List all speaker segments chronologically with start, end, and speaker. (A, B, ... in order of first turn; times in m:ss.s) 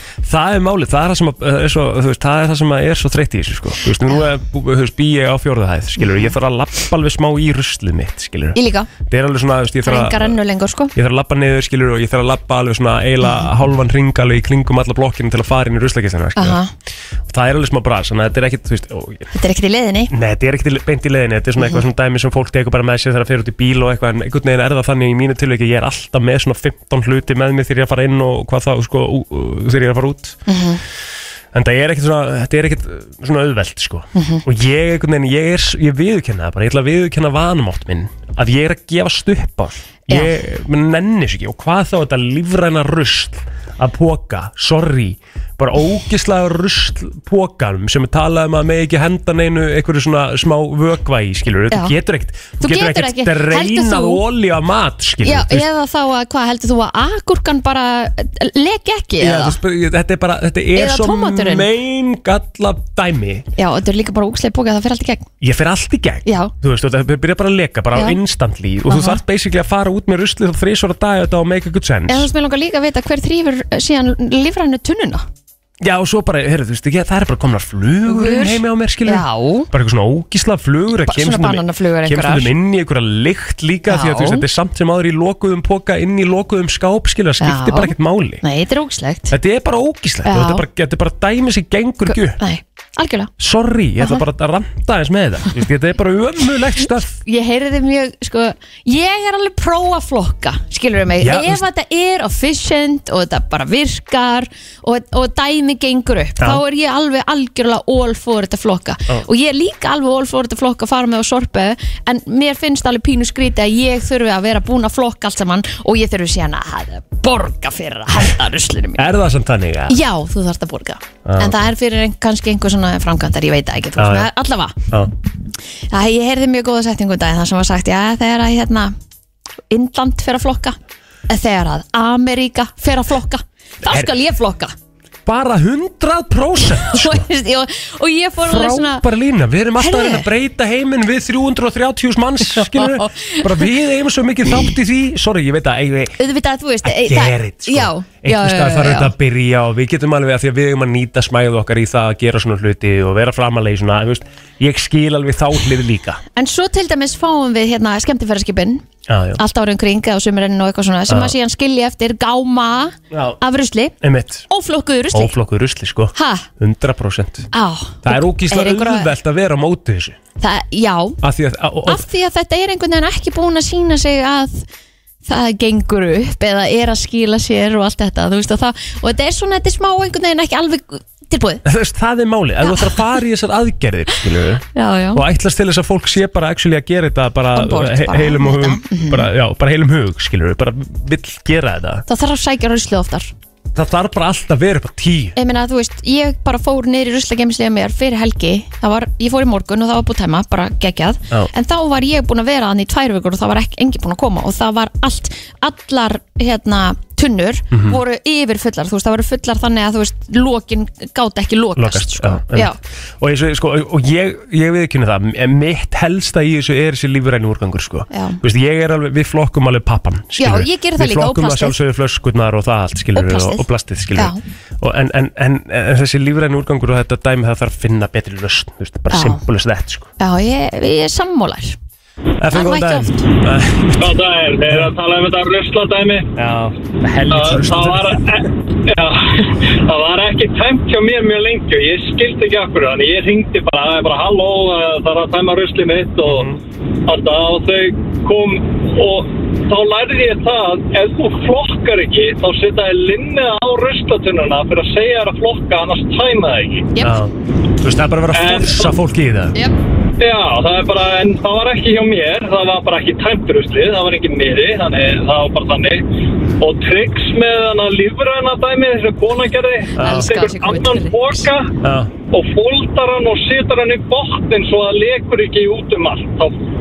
0:00.2-0:10.4 A
0:06.0-0:06.3 B
0:08.5-0:08.9 B
0:09.8-0:10.9 B
0:10.9-0:16.6 A
0:16.4-0:16.7 B
0:17.3-0:19.3 A
0:19.3-0:20.1 B
0:20.1-0:30.4 A
0:30.5-0:30.8 B
0:31.5-0:55.7 A
0:34.1-0:34.4 B
0:40.1-0:40.3 B
0:52.6-0:54.2 B
0:55.2-0:59.6 B
0:59.2-1:03.5 A
1:00.7-1:01.7 B
1:03.6-1:05.3 B
1:05.4-1:12.3 A
1:06.2-1:06.5 B
1:08.9-1:09.2 B
1:12.1-1:15.2 B
1:15.8-1:28.4 A
1:18.0-1:19.7 B
1:20.9-1:22.5 B
1:23.9-1:24.4 B
1:27.4-1:29.3 B
1:29.3-1:32.4 A
1:30.2-1:30.6 B
1:32.1-1:33.3 B
1:33.4-1:37.2 A
1:37.2-1:59.1 B
1:41.2-1:41.6 A
1:59.0-2:00.0 A
1:59.9-2:04.8 B
2:01.2-2:01.7 A
2:04.0-2:04.3 A
2:05.9-2:08.9 B
2:09.7-2:10.8 B
2:11.3-2:14.7 B
2:13.8-2:14.1 A
2:15.2-2:17.2 A
2:16.8-2:19.0 B
2:18.4-2:26.2 A
2:19.8-2:20.3 B
2:22.4-2:23.7 B
2:26.2-2:29.1 B
2:26.8-2:36.2 A
2:36.3-2:38.8 B
2:39.1-2:39.4 A
2:39.4-2:44.0 B
2:41.1-2:41.3 A
2:43.1-2:43.4 A
2:44.0-2:44.5 A
2:44.5-2:45.4 B
2:45.1-2:47.5 A
2:46.1-2:46.5 B
2:47.5-2:49.1 B
2:48.0-2:50.2 A
2:50.4-2:51.2 B
2:51.2-2:52.1 A
2:51.8-2:54.6 B
2:55.2-3:01.6 B
3:01.6-3:04.6 A
3:02.6-3:03.0 B
3:04.7-3:05.2 B
3:05.1-3:12.0 A
3:07.5-3:09.3 B
3:12.1-3:13.3 B
3:13.7-3:15.4 A
3:15.4-3:32.8 B
3:27.7-3:28.0 A
3:31.8-3:50.1 A
3:38.1-3:38.4 B
3:40.4-3:41.8 B
3:43.1-3:43.6 B
3:49.1-3:49.4 B
3:50.2-3:51.8 B
3:52.4-3:54.9 A
3:52.5-3:53.2 B
3:54.0-3:56.3 C
3:56.4-3:58.4 A
3:57.3-4:06.5 C
4:06.2-4:06.6 A
4:07.0-4:16.9 C
4:17.0-4:19.5 A
4:18.3-4:18.9 C
4:20.2-4:26.0 C
4:26.6-4:31.7 C
4:30.0-4:30.4 A
4:30.0-4:31.5 B
4:31.8-4:32.1 A
4:32.3-4:36.6 C